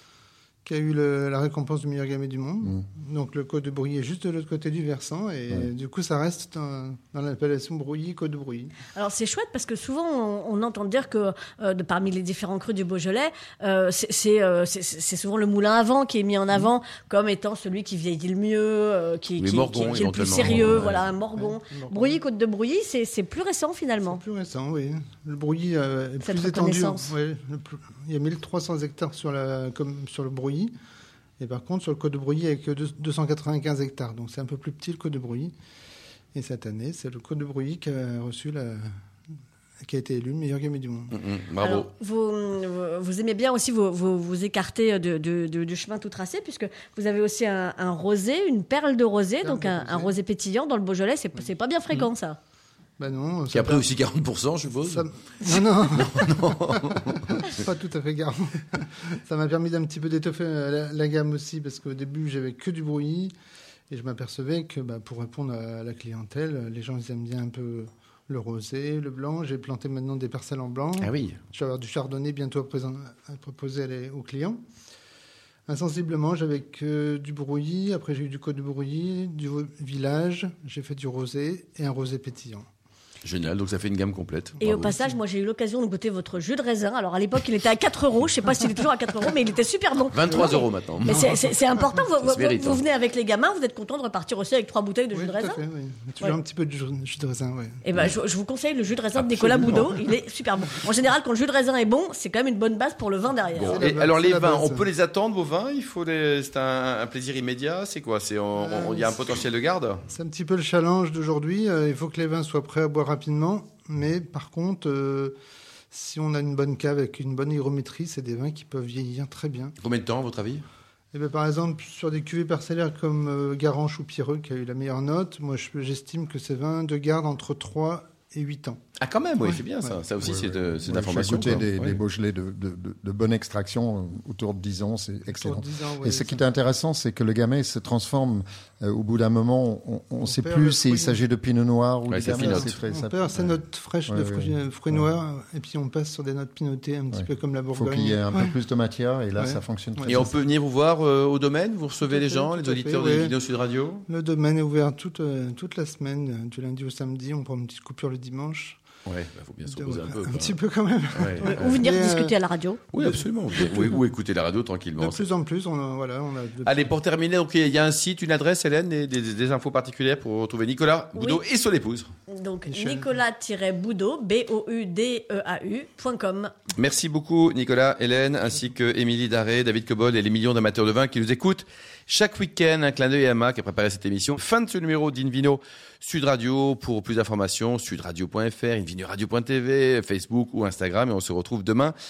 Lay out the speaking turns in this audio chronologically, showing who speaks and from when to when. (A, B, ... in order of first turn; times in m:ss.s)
0:00.6-0:08.7 A
0:08.9-0:24.2 B
0:19.4-0:21.0 C
0:20.4-0:22.2 A
0:24.0-0:30.7 A
0:26.2-0:27.1 B
0:31.4-0:35.5 A
0:36.3-0:38.8 A
0:39.8-0:41.1 A
0:41.1-0:41.9 C
0:41.6-0:52.4 B
0:49.4-0:50.2 A
0:53.0-0:53.8 A
0:53.5-0:57.4 C
0:54.8-1:03.3 A
1:03.9-1:14.6 A
1:11.0-1:11.4 C
1:15.7-1:22.6 A
1:23.2-1:25.0 C
1:24.6-1:35.6 B
1:30.1-1:31.5 C
1:30.2-1:30.6 A
1:32.2-1:32.8 C
1:35.1-1:37.8 A
1:37.8-1:43.8 B
1:39.1-1:39.9 C
1:43.5-1:50.0 C
1:43.6-1:44.9 A
1:48.5-1:49.1 A
1:50.1-1:55.4 A
1:55.9-1:59.7 A
1:59.8-2:00.6 C
2:01.1-2:08.8 A
2:09.0-2:12.0 C
2:09.4-2:10.2 A
2:10.2-2:25.1 D
2:15.3-2:16.5 A
2:20.2-2:21.2 A
2:22.1-2:22.7 C
2:22.3-2:28.5 A
2:27.1-2:30.3 D
2:29.4-2:30.3 A
2:30.0-2:34.0 C
2:32.0-2:33.4 A
2:34.1-2:38.8 A
2:39.0-2:40.6 C
2:39.6-2:42.3 A
2:41.1-2:41.8 C
2:41.4-2:42.8 B
2:42.9-2:45.2 C
2:43.0-2:44.0 A
2:45.0-2:46.9 A
2:46.6-2:52.1 C
2:51.2-2:51.4 B
2:52.3-2:56.5 B
2:52.7-2:53.1 A
2:56.8-3:11.9 C